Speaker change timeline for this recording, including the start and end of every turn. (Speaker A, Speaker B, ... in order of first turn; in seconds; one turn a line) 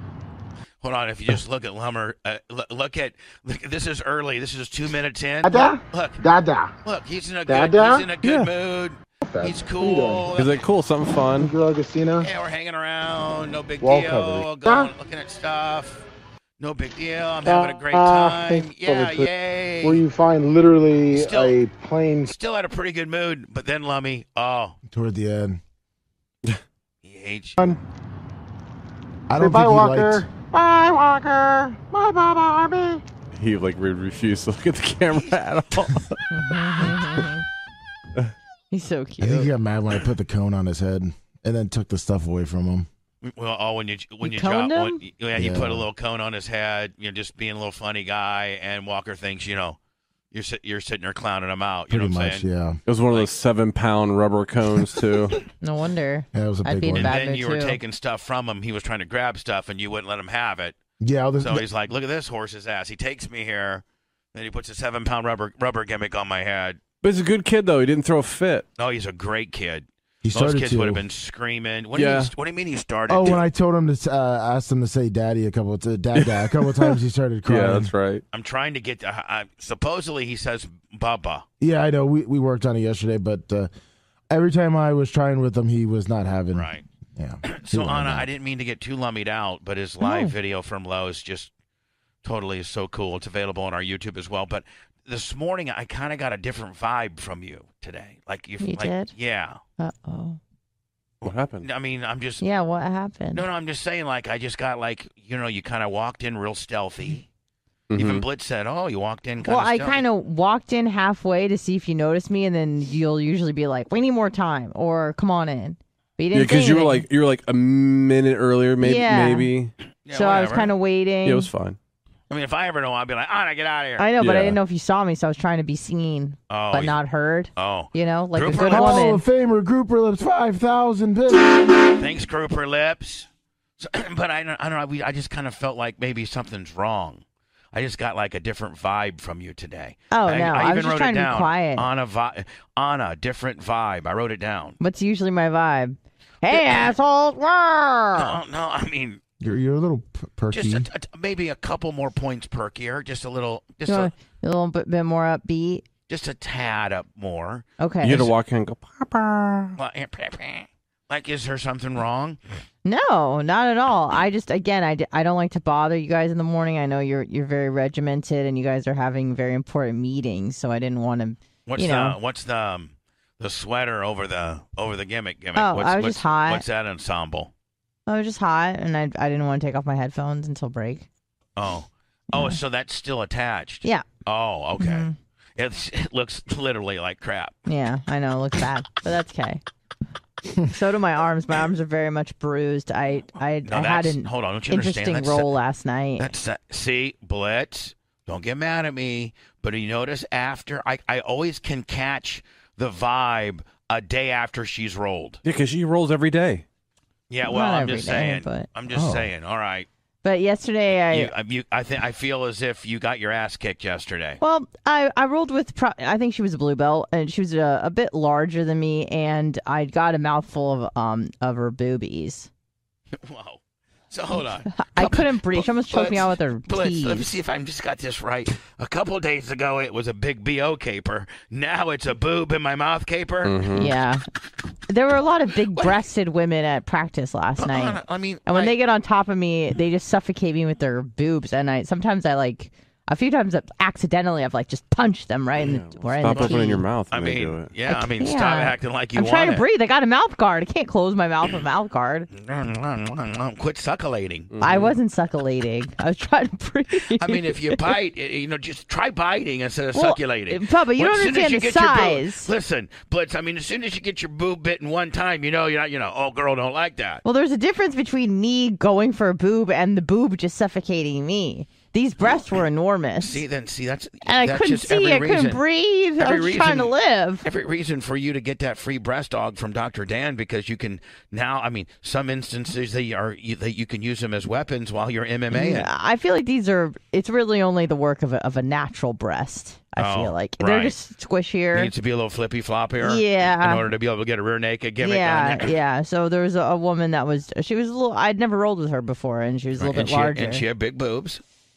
Speaker A: 0.8-6.2
Speaker B: 5.4-6.7
Speaker A: 6.8-10.6
Speaker B: 7.5-8.1
Speaker C: 8.2-8.5
Speaker B: 9.2-10.3
Speaker C: 10.4-11.5
Speaker B: 11.4-12.3
Speaker A: 12.2-16.0
Speaker B: 13.8-14.9
Speaker A: 16.6-20.0
Speaker B: 17.4-19.3
Speaker B: 19.8-22.3
Speaker A: 21.1-21.6
Speaker A: 22.2-24.8
Speaker D: 24.9-25.6
Speaker A: 27.0-27.7
Speaker D: 29.3-30.3
Speaker B: 29.3-33.0
Speaker C: 33.3-37.2
Speaker E: 36.3-37.4
Speaker E: 38.7-39.5
Speaker D: 39.2-42.9
Speaker A: 43.2-49.8
Speaker E: 44.2-45.0
Speaker D: 45.3-45.9
Speaker A: 50.3-52.5
Speaker D: 51.9-52.8
Speaker C: 52.9-55.4
Speaker E: 55.6-57.8
Speaker D: 56.3-57.1
Speaker A: 57.0-60.8
Speaker D: 61.0-61.6
Speaker A: 61.4-66.8
Speaker C: 67.0-68.7
Speaker A: 68.8-73.5
Speaker D: 70.2-71.0
Speaker C: 71.9-72.3
Speaker D: 73.1-77.9
Speaker C: 76.1-78.2
Speaker A: 78.3-81.4
Speaker D: 81.6-83.7
Speaker D: 84.3-88.3
Speaker A: 86.5-86.8
Speaker A: 87.4-91.5
Speaker E: 90.0-90.3
Speaker A: 92.2-99.6
Speaker E: 98.6-99.1
Speaker E: 99.8-100.4
Speaker A: 101.2-102.4
Speaker C: 101.2-101.7
Speaker E: 102.4-103.4
Speaker A: 103.3-107.3
Speaker C: 107.9-108.2
Speaker A: 108.0-110.0
Speaker E: 109.4-117.0
Speaker C: 116.3-119.7
Speaker E: 118.8-119.5
Speaker A: 120.0-120.7
Speaker E: 120.1-121.5
Speaker C: 121.2-121.8
Speaker A: 122.3-124.1
Speaker E: 124.0-129.2
Speaker C: 124.2-124.6
Speaker A: 126.5-127.0
Speaker A: 127.5-129.1
Speaker D: 128.7-131.7
Speaker A: 132.0-133.3
Speaker A: 133.8-144.8
Speaker E: 140.1-141.9
Speaker E: 144.8-148.4
Speaker A: 146.5-146.8
Speaker A: 148.1-149.2
Speaker D: 149.4-150.9
Speaker A: 150.5-154.1
Speaker E: 153.9-155.9
Speaker A: 156.1-157.7
Speaker E: 157.8-158.3
Speaker C: 158.0-159.8
Speaker A: 159.8-162.4
Speaker E: 162.8-172.2
Speaker A: 171.7-177.5
Speaker E: 175.5-176.6
Speaker E: 178.1-181.1
Speaker A: 181.6-187.6
Speaker E: 182.3-182.6
Speaker E: 184.8-185.2
Speaker E: 187.7-189.6
Speaker E: 190.6-196.3
Speaker A: 193.6-195.5
Speaker A: 196.2-205.4
Speaker C: 205.4-206.6
Speaker A: 207.3-209.9
Speaker E: 207.4-208.7
Speaker D: 208.9-209.3
Speaker E: 210.2-211.3
Speaker A: 211.0-214.4
Speaker E: 214.4-222.5
Speaker A: 223.2-233.7
Speaker E: 224.7-227.3
Speaker C: 233.4-233.9
Speaker E: 233.7-234.2
Speaker E: 234.9-246.9
Speaker A: 237.6-238.7
Speaker C: 245.6-247.7
Speaker A: 246.2-249.6
Speaker E: 247.9-252.3
Speaker A: 252.3-254.5
Speaker C: 254.5-254.9
Speaker E: 254.6-257.9
Speaker A: 257.1-267.2
Speaker E: 259.9-262.5
Speaker E: 267.2-273.4
Speaker A: 273.2-275.6
Speaker E: 274.2-277.4
Speaker A: 276.2-285.9
Speaker E: 285.5-291.9
Speaker A: 290.0-290.9
Speaker A: 291.7-295.7
Speaker E: 293.0-293.9
Speaker E: 295.0-300.6
Speaker A: 299.8-301.4